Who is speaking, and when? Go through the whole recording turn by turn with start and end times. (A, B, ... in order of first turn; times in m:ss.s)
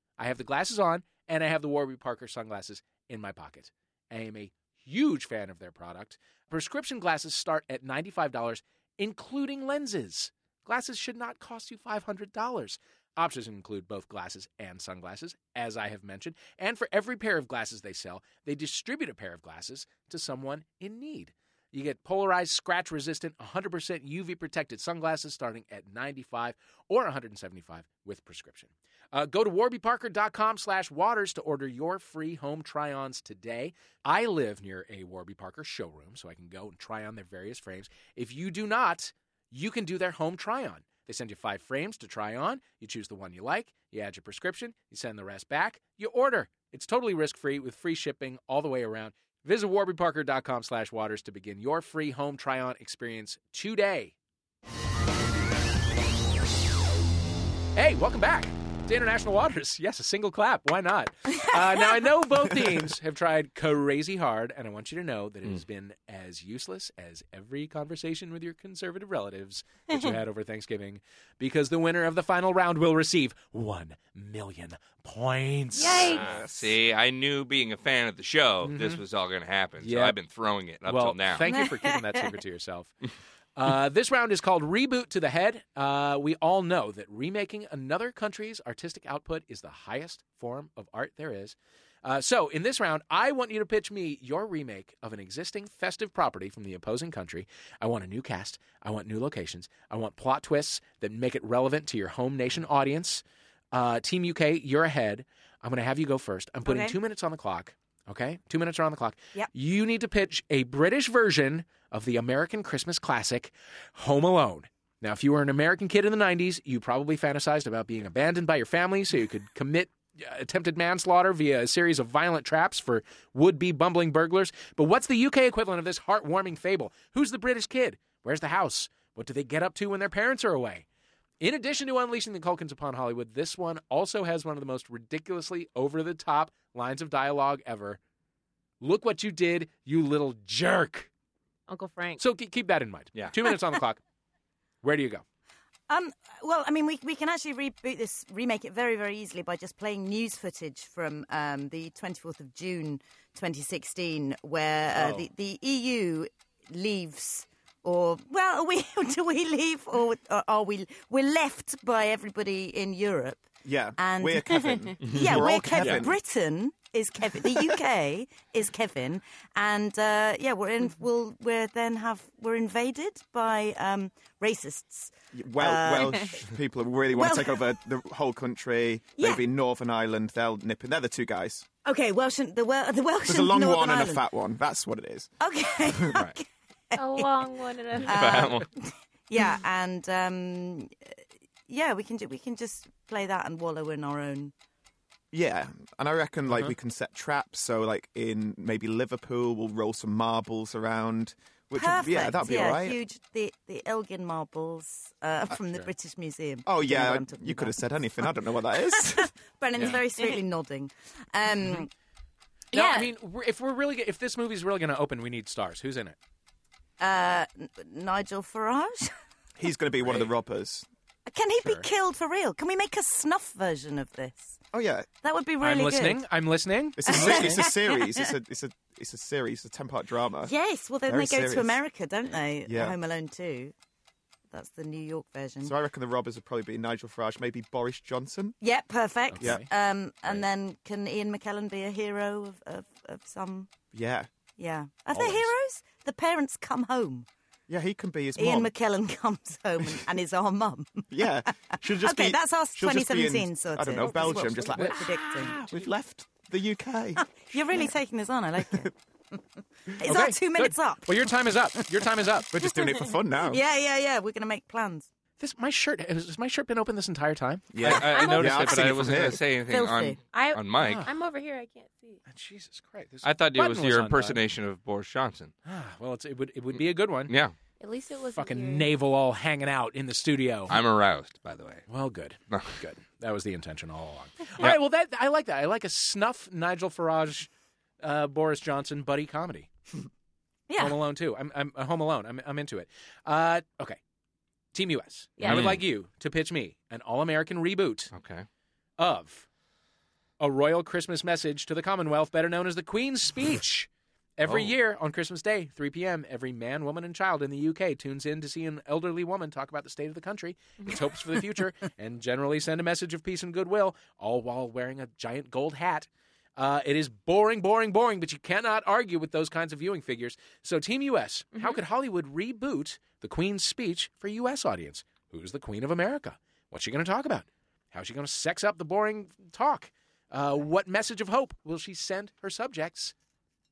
0:00.2-0:54.1 A
0:57.7-1:16.2 A
1:15.8-1:16.2 B
1:15.9-1:21.5 C
1:16.1-1:16.8 D
1:18.6-1:19.0 A
1:19.8-1:20.2 A
1:20.8-1:23.0 A
1:21.5-1:22.4 E
1:23.6-2:10.8 A
1:46.6-1:47.0 E
2:11.4-2:18.0 A
2:18.8-2:21.1 A
2:21.7-2:22.2 B
2:22.2-2:24.0 A
2:24.8-2:25.2 A
2:25.9-2:56.4 E
2:34.9-2:35.2 A
2:43.6-2:46.2 D
2:45.0-2:45.9 C
2:55.3-3:01.6 D
2:57.2-2:57.7 E
2:59.2-2:59.4 E
3:01.8-3:04.2 E
3:03.2-3:05.3 D
3:05.4-3:11.0 E
3:05.8-3:06.2 D
3:06.9-3:08.5 B
3:08.0-3:08.7 C
3:11.7-3:14.5 E
3:15.3-3:23.0 D
3:21.7-3:31.9 E
3:26.6-3:29.3 D
3:29.8-3:30.0 A
3:32.7-3:36.2 A
3:32.7-3:33.0 E
3:37.0-3:39.1 E
3:39.6-3:40.8 D
3:40.0-3:40.3 A
3:41.3-3:44.6 E
3:41.6-3:41.9 A
3:44.7-3:45.1 D
3:45.2-3:46.2 E
3:45.6-3:47.6 A
3:47.0-3:50.5 D
3:47.0-3:48.3 E
3:50.4-3:53.7 E
3:51.0-3:51.8 D
3:52.7-3:53.0 D
3:54.5-3:55.7 E
3:55.6-3:58.6 D
3:58.6-4:03.7 E
3:59.3-3:59.7 A
3:59.4-3:59.6 D
4:03.9-4:04.3 D
4:04.6-4:07.3 E
4:05.1-4:05.5 A
4:07.7-4:08.7 D
4:08.4-4:15.7 E
4:11.1-4:17.9 D
4:14.7-4:15.0 A
4:17.2-4:19.4 E
4:19.9-4:21.3 E
4:20.0-4:22.5 A
4:22.5-4:23.6 D
4:23.4-4:25.1 E
4:25.4-4:29.3 A
4:27.7-4:29.4 D
4:27.8-4:31.0 C
4:28.2-4:28.5 B
4:29.7-4:30.2 E
4:30.3-4:32.2 B
4:30.8-4:31.1 A
4:32.2-4:34.4 A
4:33.2-4:35.5 C
4:35.6-4:37.3 A
4:36.7-4:37.5 C
4:37.8-4:38.9 B
4:38.3-4:40.8 A
4:40.7-4:41.8 C
4:41.9-4:47.5 A
4:48.0-4:49.7 A
4:50.7-4:51.0 E
4:50.8-4:54.0 A
4:54.7-4:58.1 A
4:55.4-4:55.8 B
4:55.4-4:55.8 C
4:58.1-4:58.5 C
4:59.0-4:59.5 A
5:00.4-5:33.1 A
5:04.4-5:04.7 C